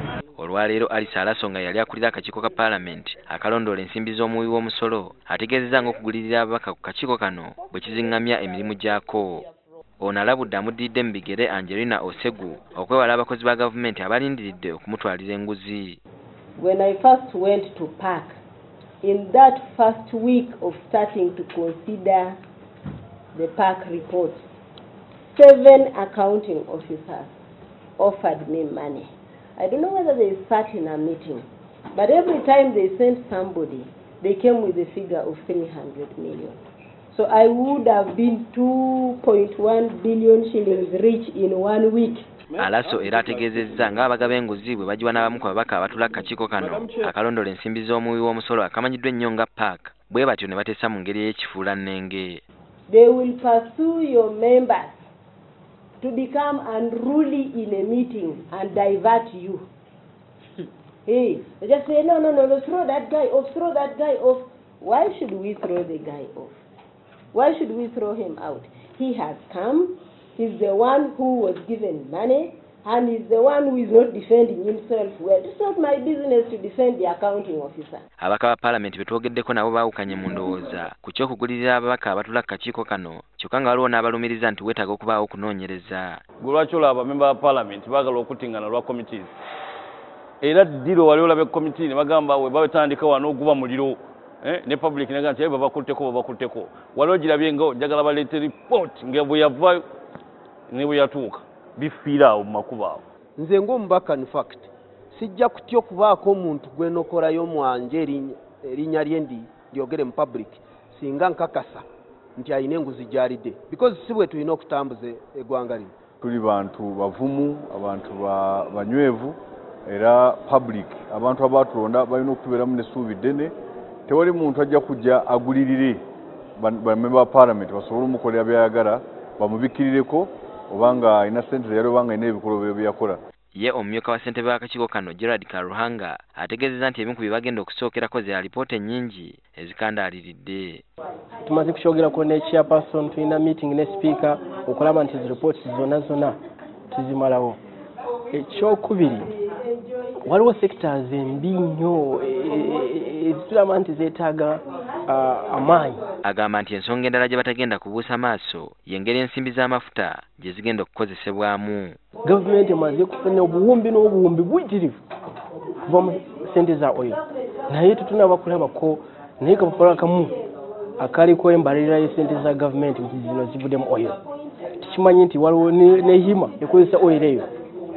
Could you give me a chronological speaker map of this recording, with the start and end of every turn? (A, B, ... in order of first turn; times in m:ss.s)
0:00.4-0:09.4 A
0:10.0-0:16.0 A
0:16.6-0:18.4 B
0:19.0-0:22.4 B
0:23.3-0:24.4 B
0:25.3-0:27.3 B
0:28.0-0:36.6 B
0:37.1-0:42.2 B
0:42.5-0:44.4 C
0:42.6-0:52.4 A
0:46.6-0:47.1 C
0:52.9-0:55.0 B
0:56.0-0:59.7 B
1:01.0-1:06.6 B
1:07.3-1:18.0 B
1:18.2-1:26.2 A
1:26.4-1:29.3 C
1:30.4-1:39.8 C
1:40.7-1:43.0 C
1:43.4-1:51.8 D
1:52.4-1:55.9 D
1:56.2-2:03.5 E
2:04.1-2:06.0 E
2:06.6-2:13.2 E
2:13.5-2:20.8 A
2:21.4-2:26.4 F
2:26.9-2:27.6 F
2:28.3-2:29.3 F
2:30.2-2:36.1 F
2:36.2-2:42.0 A
2:42.2-2:45.0 F
2:45.8-2:50.4 F
2:51.0-2:54.2 F
2:54.8-2:57.5 F